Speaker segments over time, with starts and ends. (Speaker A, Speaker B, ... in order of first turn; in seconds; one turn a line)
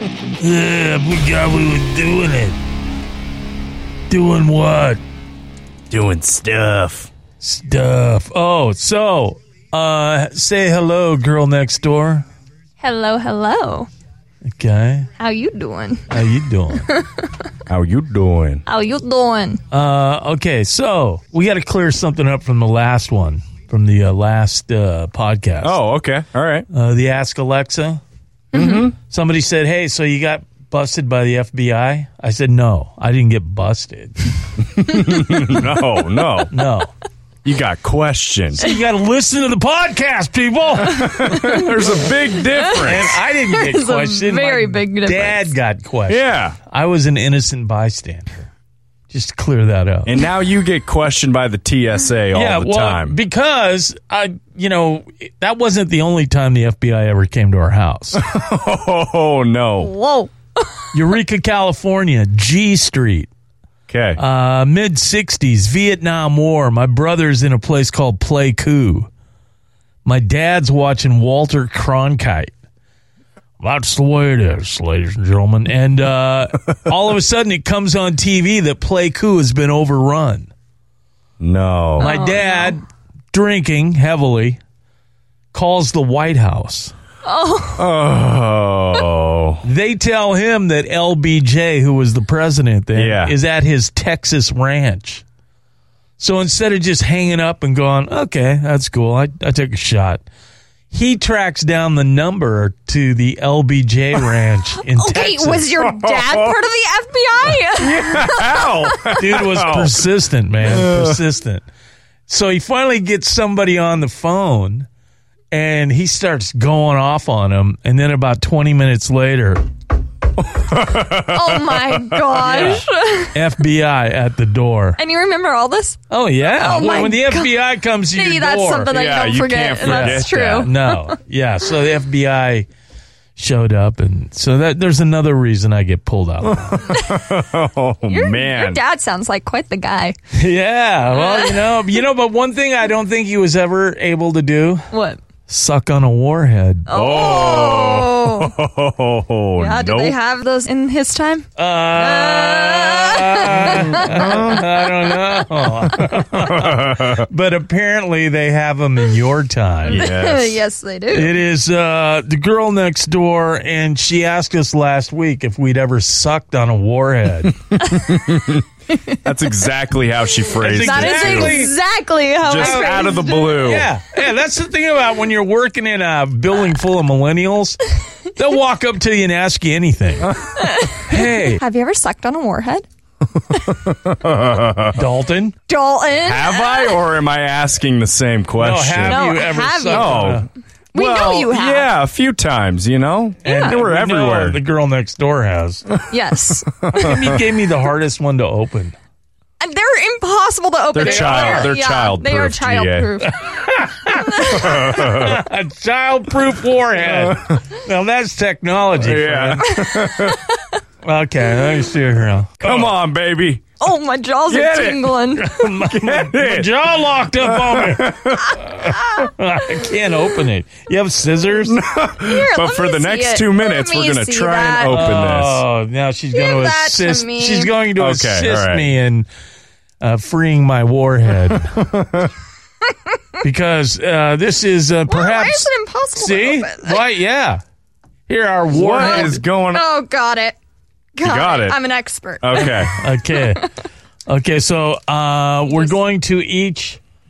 Speaker A: 0.4-2.6
Speaker A: 4.1-5.0
Speaker B: 5.9-7.1
Speaker A: 7.4-12.2
Speaker C: 12.8-13.9
Speaker A: 14.4-15.1
Speaker C: 15.2-16.0
Speaker A: 16.1-16.9
Speaker C: 16.9-17.3
Speaker B: 17.7-18.6
Speaker C: 18.6-19.6
Speaker A: 19.7-25.8
Speaker B: 25.6-26.7
Speaker A: 26.7-28.0
Speaker B: 28.5-28.9
Speaker C: 28.5-28.9
Speaker A: 29.0-34.3
Speaker B: 34.8-36.5
Speaker A: 36.5-36.9
Speaker B: 37.4-38.6
Speaker A: 38.6-41.6
Speaker B: 40.9-43.2
Speaker C: 42.5-45.5
Speaker A: 42.8-48.5
Speaker B: 46.1-46.6
Speaker A: 49.1-50.2
Speaker B: 50.0-53.1
Speaker A: 52.3-58.2
Speaker B: 58.1-59.9
Speaker C: 59.8-60.6
Speaker A: 60.9-63.3
Speaker B: 63.9-64.2
Speaker A: 64.2-69.1
Speaker A: 70.0-72.5
Speaker A: 73.6-80.5
Speaker B: 81.4-82.1
Speaker A: 82.0-84.6
Speaker C: 82.0-82.7
Speaker A: 85.5-86.9
Speaker C: 87.2-87.9
Speaker B: 87.8-89.6
Speaker A: 89.6-95.2
Speaker B: 92.9-93.3
Speaker A: 96.2-100.2
Speaker A: 100.9-105.7
Speaker C: 104.9-109.2
Speaker B: 105.8-106.5
Speaker B: 107.7-110.0
Speaker A: 109.1-111.6
Speaker B: 110.6-111.2
Speaker A: 112.3-114.9
Speaker A: 115.5-119.6
Speaker B: 120.4-122.8
Speaker C: 121.2-123.3
Speaker A: 122.4-125.0
Speaker C: 125.0-127.6
Speaker A: 126.1-128.9
Speaker C: 128.1-131.0
Speaker B: 128.9-130.7
Speaker A: 129.8-132.7
Speaker A: 133.3-136.9
Speaker B: 136.5-138.8
Speaker C: 136.9-137.2
Speaker C: 138.1-140.2
Speaker A: 140.3-144.9
Speaker C: 141.1-141.8
Speaker C: 144.9-145.2
Speaker A: 145.5-146.9
Speaker C: 146.9-148.6
Speaker B: 146.9-150.2
Speaker C: 149.6-154.6
Speaker A: 151.6-160.1
Speaker B: 153.6-154.6
Speaker B: 156.3-157.2
Speaker B: 159.8-160.6
Speaker C: 159.9-161.4
Speaker A: 161.1-167.6
Speaker B: 167.8-168.6
Speaker B: 169.2-171.6
Speaker A: 170.6-171.7
Speaker C: 170.6-173.8
Speaker B: 172.4-173.9
Speaker A: 172.5-180.4
Speaker C: 180.6-182.8
Speaker A: 181.0-181.6
Speaker B: 183.7-185.0
Speaker A: 184.9-185.6
Speaker C: 185.7-187.1
Speaker B: 186.2-194.6
Speaker A: 188.6-190.5
Speaker C: 189.0-190.4
Speaker C: 190.9-191.9
Speaker A: 193.4-195.8
Speaker C: 196.1-197.1
Speaker A: 196.9-198.9
Speaker C: 199.6-203.4
Speaker B: 200.9-203.1
Speaker A: 200.9-201.7
Speaker A: 203.4-209.7
Speaker C: 204.1-205.0
Speaker B: 204.5-205.4
Speaker B: 208.9-210.4
Speaker C: 209.7-210.4
Speaker A: 211.0-212.9
Speaker B: 212.6-213.6
Speaker C: 213.8-215.5
Speaker B: 214.5-216.8
Speaker A: 215.4-221.8
Speaker B: 217.4-218.6
Speaker C: 218.6-219.3
Speaker B: 221.6-225.6
Speaker C: 222.2-225.1
Speaker A: 224.8-229.3
Speaker C: 226.3-227.7
Speaker B: 227.9-228.9
Speaker A: 230.0-231.7
Speaker B: 231.7-232.3
Speaker A: 233.4-237.6
Speaker C: 235.1-237.0
Speaker A: 238.3-239.4
Speaker B: 238.7-239.8
Speaker C: 239.0-240.6
Speaker C: 241.2-242.9
Speaker B: 241.2-241.8
Speaker B: 242.4-242.9
Speaker A: 242.6-243.7
Speaker A: 244.3-247.0